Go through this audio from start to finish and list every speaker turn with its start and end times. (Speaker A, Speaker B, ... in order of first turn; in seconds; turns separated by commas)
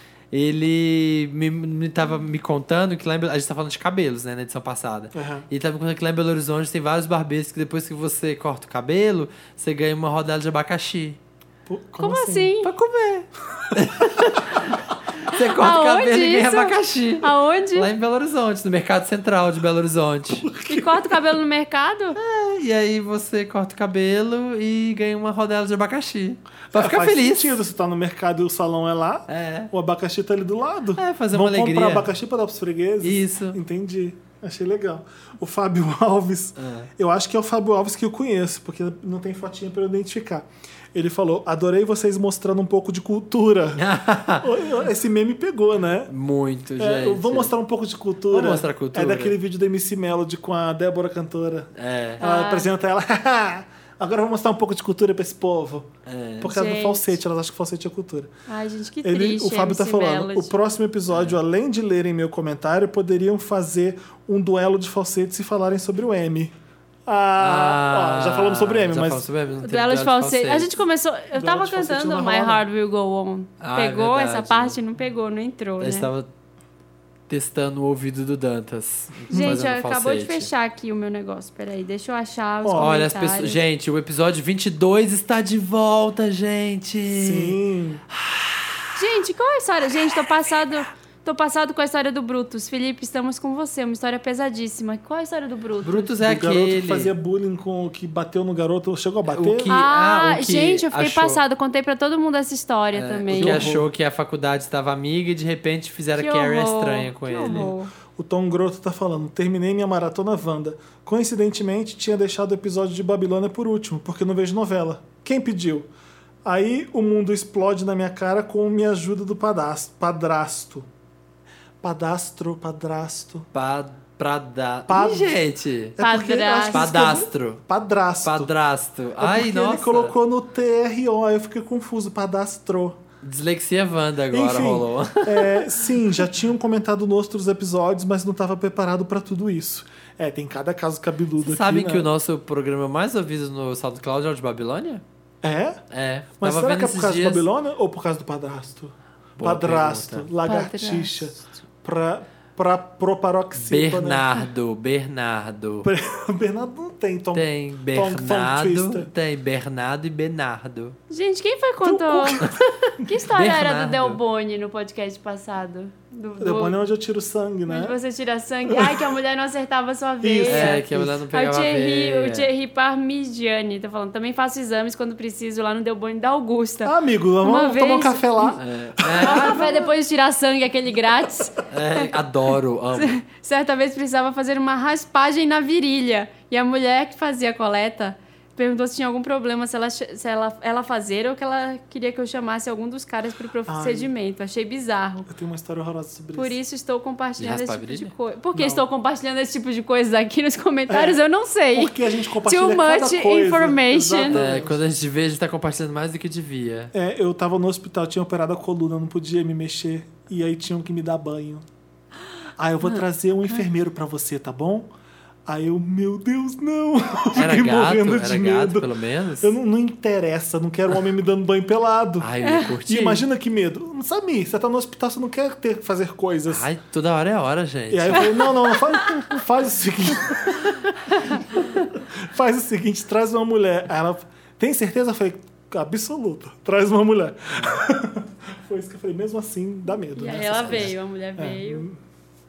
Speaker A: 0.3-11.2, Speaker B: 5.1-5.5, Speaker B: 11.7-12.5, Speaker C: 12.0-12.7, Speaker A: 12.6-20.5, Speaker C: 15.3-17.9, Speaker B: 20.4-21.1, Speaker C: 20.7-22.2, Speaker A: 22.2-27.6, Speaker B: 26.7-43.9, Speaker A: 29.3-29.7, Speaker A: 31.0-32.1, Speaker A: 33.0-33.6, Speaker A: 36.6-36.9, Speaker A: 43.8-44.6, Speaker B: 44.4-46.1, Speaker A: 46.1-47.5, Speaker B: 46.8-58.3, Speaker A: 48.3-49.4, Speaker A: 51.8-52.2, Speaker C: 52.2-52.7, Speaker A: 56.1-56.6, Speaker C: 56.5-57.2, Speaker C: 58.5-60.5, Speaker B: 59.0-66.5, Speaker A: 61.1-61.4, Speaker B: 67.1-69.3, Speaker A: 67.4-70.7, Speaker C: 69.6-76.1, Speaker B: 71.3-72.6, Speaker A: 73.6-74.8, Speaker A: 75.8-76.3, Speaker A: 77.3-80.5, Speaker B: 79.3-79.6, Speaker C: 79.3-83.6, Speaker B: 82.6-82.9, Speaker A: 82.8-87.6, Speaker B: 87.1-88.0, Speaker A: 88.1-88.9, Speaker C: 89.0-96.2, Speaker A: 95.8-97.1, Speaker B: 96.2-99.8, Speaker A: 99.3-101.4, Speaker C: 99.7-103.7, Speaker A: 102.9-107.7, Speaker B: 103.3-103.9, Speaker C: 106.2-107.9, Speaker B: 107.4-115.9, Speaker B: 116.4-120.9, Speaker B: 121.8-123.5, Speaker A: 123.5-126.0, Speaker B: 124.9-125.4, Speaker B: 126.0-128.5, Speaker C: 126.0-126.9, Speaker A: 126.7-127.6, Speaker A: 128.2-130.1, Speaker B: 129.2-133.0, Speaker A: 133.2-135.7, Speaker B: 134.3-142.1, Speaker A: 141.4-145.0, Speaker B: 145.4-145.8, Speaker A: 145.9-147.5, Speaker B: 146.4-154.3, Speaker A: 149.4-150.3, Speaker C: 150.5-151.2, Speaker A: 153.6-155.9, Speaker B: 155.8-159.1, Speaker A: 157.3-160.9, Speaker C: 161.1-162.4, Speaker B: 161.8-163.1, Speaker A: 162.4-164.2, Speaker C: 163.0-166.8, Speaker B: 166.4-168.0, Speaker C: 167.7-178.6, Speaker B: 168.7-169.1, Speaker B: 170.2-171.2, Speaker A: 170.5-172.5, Speaker B: 176.8-179.9, Speaker A: 178.6-179.7, Speaker C: 179.2-182.1, Speaker A: 181.7-183.2, Speaker C: 183.0-195.3, Speaker B: 193.7-194.1, Speaker B: 195.3-196.6, Speaker C: 196.4-204.4, Speaker A: 197.4-198.1, Speaker B: 198.6-198.8, Speaker B: 200.9-201.2, Speaker B: 201.7-204.8, Speaker A: 204.3-206.9, Speaker B: 206.9-211.7, Speaker B: 212.6-214.9, Speaker B: 215.5-218.9, Speaker A: 217.3-219.5, Speaker B: 219.4-222.3, Speaker A: 222.2-223.2, Speaker B: 222.8-226.7, Speaker A: 226.5-228.5, Speaker B: 227.9-230.8, Speaker B: 231.5-242.0, Speaker A: 237.5-237.8, Speaker C: 240.2-241.9, Speaker A: 240.2-240.9